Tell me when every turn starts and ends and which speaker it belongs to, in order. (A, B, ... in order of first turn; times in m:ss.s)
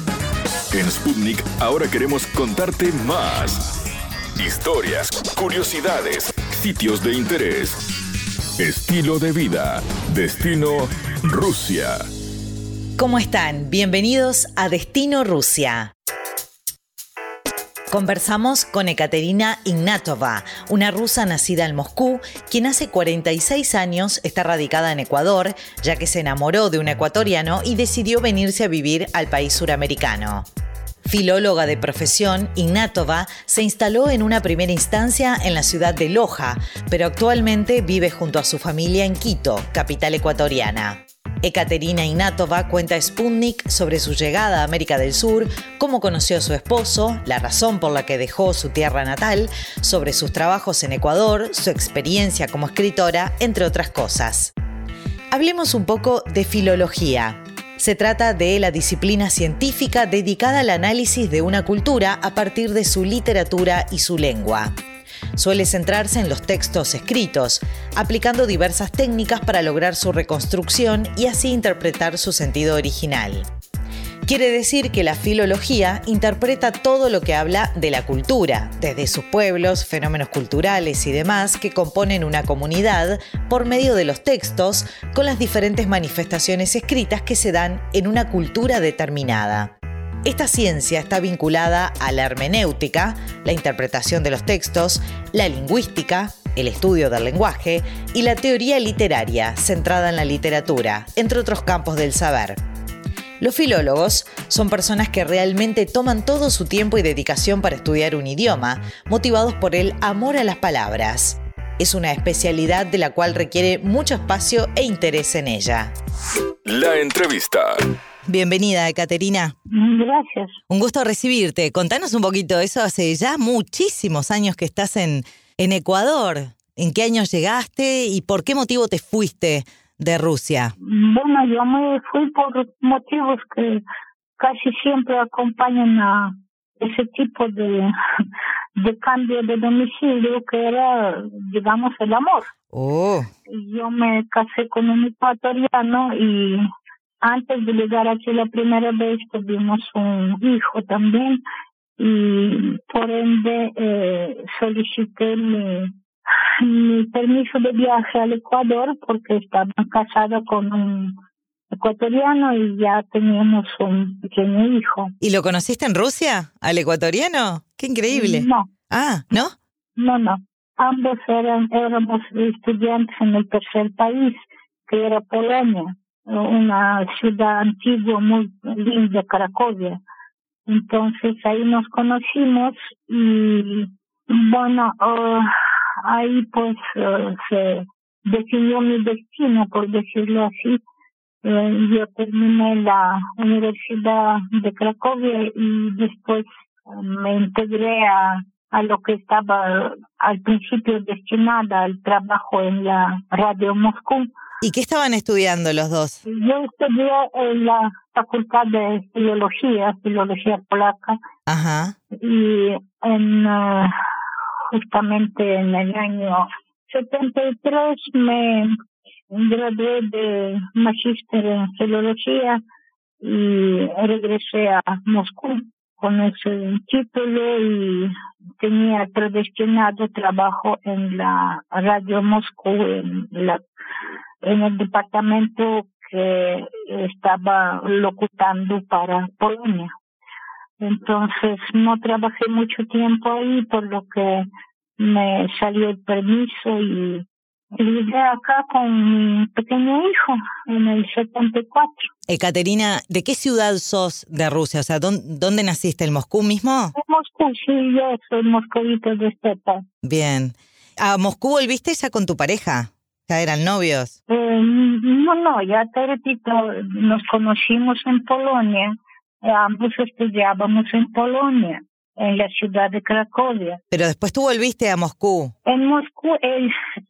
0:00.7-0:03.7 A
0:04.4-0:07.8 A
0:08.6-0:12.0 A
0:13.0-0:15.9 B
0:17.9-0:30.4 B
0:31.0-0:54.5 B
0:55.3-1:04.7 B
1:05.4-1:13.4 B
1:14.3-1:29.7 B
1:30.2-1:42.6 B
1:43.4-1:55.9 B
1:56.6-1:57.8 A
1:58.3-1:59.5 B
1:59.7-2:00.6 C
2:00.7-2:10.7 B
2:10.8-2:13.8 C
2:14.4-2:17.9 C
2:18.8-2:22.5 C
2:22.7-2:23.3 B
2:23.5-2:26.6 C
2:27.2-2:31.4 C
2:32.0-2:35.9 C
2:36.6-2:41.2 C
2:41.7-2:45.1 C
2:45.2-2:49.5 B
2:48.1-2:48.7 C
2:50.0-3:00.0 C
3:00.7-3:05.5 C
3:06.0-3:10.8 C
3:11.4-3:24.3 C
3:24.6-3:26.2 B
3:26.2-3:31.2 C
3:31.5-3:31.9 B
3:32.1-3:34.0 C
3:34.7-3:38.7 C
3:39.3-3:42.6 C
3:43.2-3:53.6 C
3:54.4-3:59.9 C
4:00.8-4:12.1 C
4:12.3-4:16.9 B
4:16.9-4:19.8 C
4:20.0-4:24.1 B
4:24.3-4:33.8 C
4:33.9-4:35.5 B
4:35.6-4:36.7 C